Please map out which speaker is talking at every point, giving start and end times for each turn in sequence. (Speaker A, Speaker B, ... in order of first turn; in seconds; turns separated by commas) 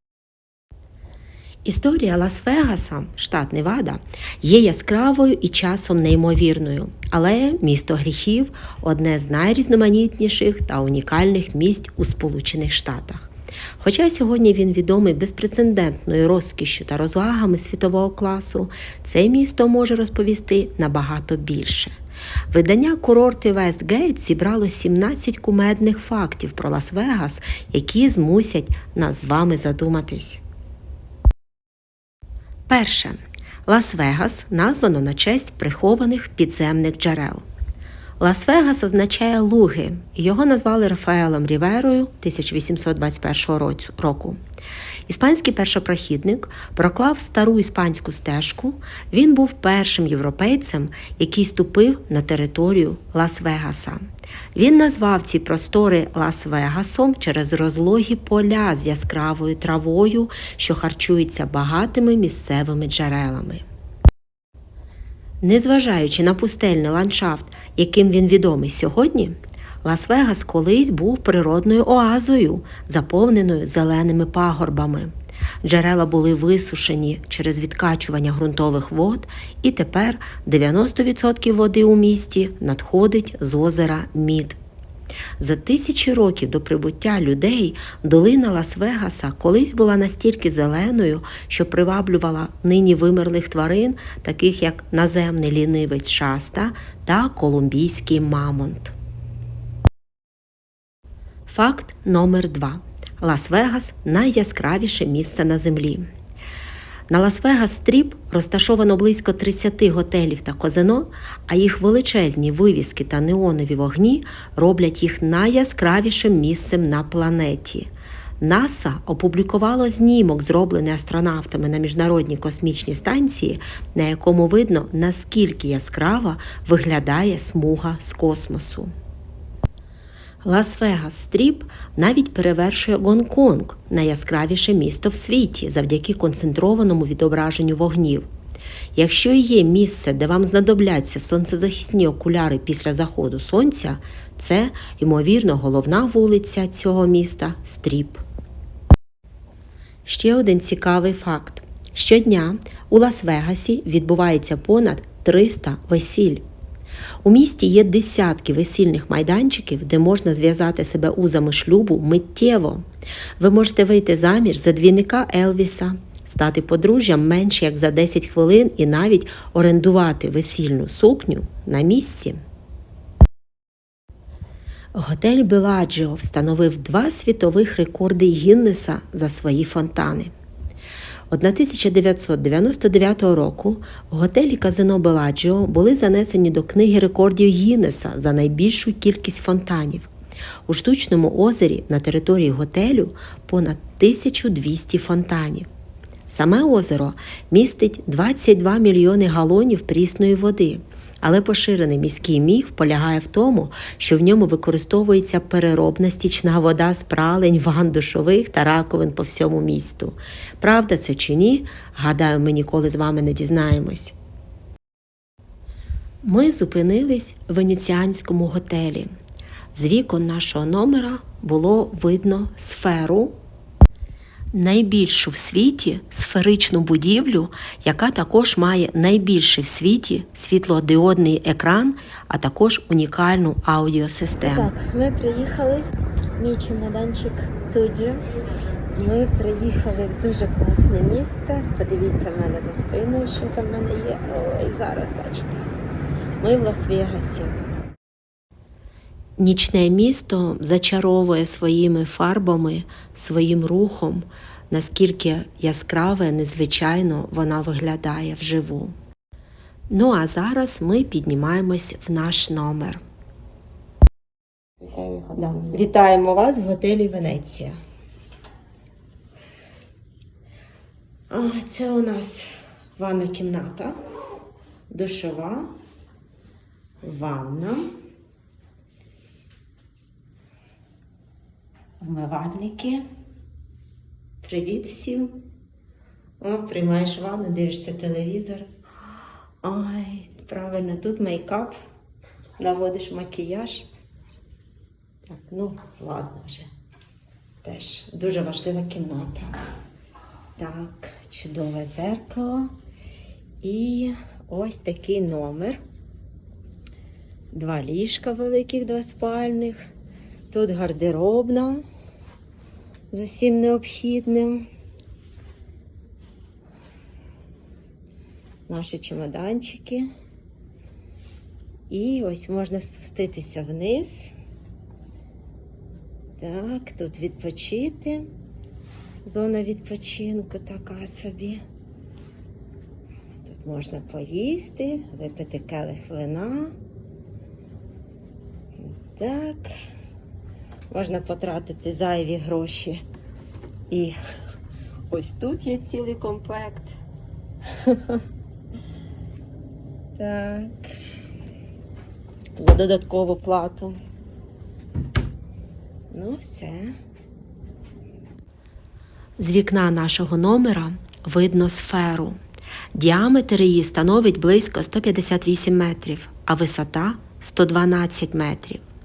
Speaker A: 1.6-21.9, Speaker A: 22.5-30.4, Speaker A: 32.7-37.4, Speaker A: 38.2-44.4, Speaker A: 45.1-54.0, Speaker A: 54.5-63.6, Speaker A: 65.4-75.1, Speaker A: 75.6-84.6, Speaker A: 85.4-98.9, Speaker A: 101.5-106.1, Speaker A: 107.1-117.9, Speaker A: 118.4-128.9, Speaker A: 130.4-138.3, Speaker A: 138.9-148.2, Speaker A: 150.1-156.4, Speaker A: 157.2-162.8, Speaker A: 163.4-172.4, Speaker A: 174.9-180.3, Speaker A: 181.3-190.1, Speaker A: 190.7-195.7, Speaker A: 196.3-214.2, Speaker A: 216.2-219.1, Speaker A: 219.7-223.4, Speaker A: 224.5-234.7, Speaker B: 234.4-238.3, Speaker B: 238.9-245.7, Speaker B: 246.4-247.5, Speaker A: 249.4-258.9, Speaker A: 259.9-263.0, Speaker B: 264.8-266.0, Speaker A: 265.6-267.7, Speaker A: 271.3-272.4, Speaker A: 273.0-273.9, Speaker A: 274.9-275.6, Speaker A: 277.1-277.8, Speaker A: 282.0-283.0, Speaker A: 284.4-285.4, Speaker A: 286.4-288.7, Speaker A: 289.6-291.8, Speaker A: 292.6-293.9, Speaker A: 295.3-296.7, Speaker A: 297.6-299.6, Speaker A: 300.6-302.7, Speaker A: 303.6-305.8, Speaker A: 307.5-309.8, Speaker A: 310.5-311.8, Speaker B: 313.1-313.7, Speaker A: 313.2-314.6, Speaker A: 318.8-320.1, Speaker A: 321.9-324.3, Speaker B: 323.0-324.1, Speaker B: 326.4-328.2, Speaker A: 326.5-327.3, Speaker A: 329.3-331.6, Speaker A: 333.5-336.7, Speaker B: 334.3-334.8, Speaker A: 338.8-339.8, Speaker B: 340.9-343.0, Speaker A: 341.2-341.6, Speaker A: 345.1-346.9, Speaker B: 350.2-350.7, Speaker B: 352.6-353.9, Speaker A: 352.7-353.1, Speaker B: 356.1-356.9, Speaker A: 359.4-362.4, Speaker A: 362.9-368.8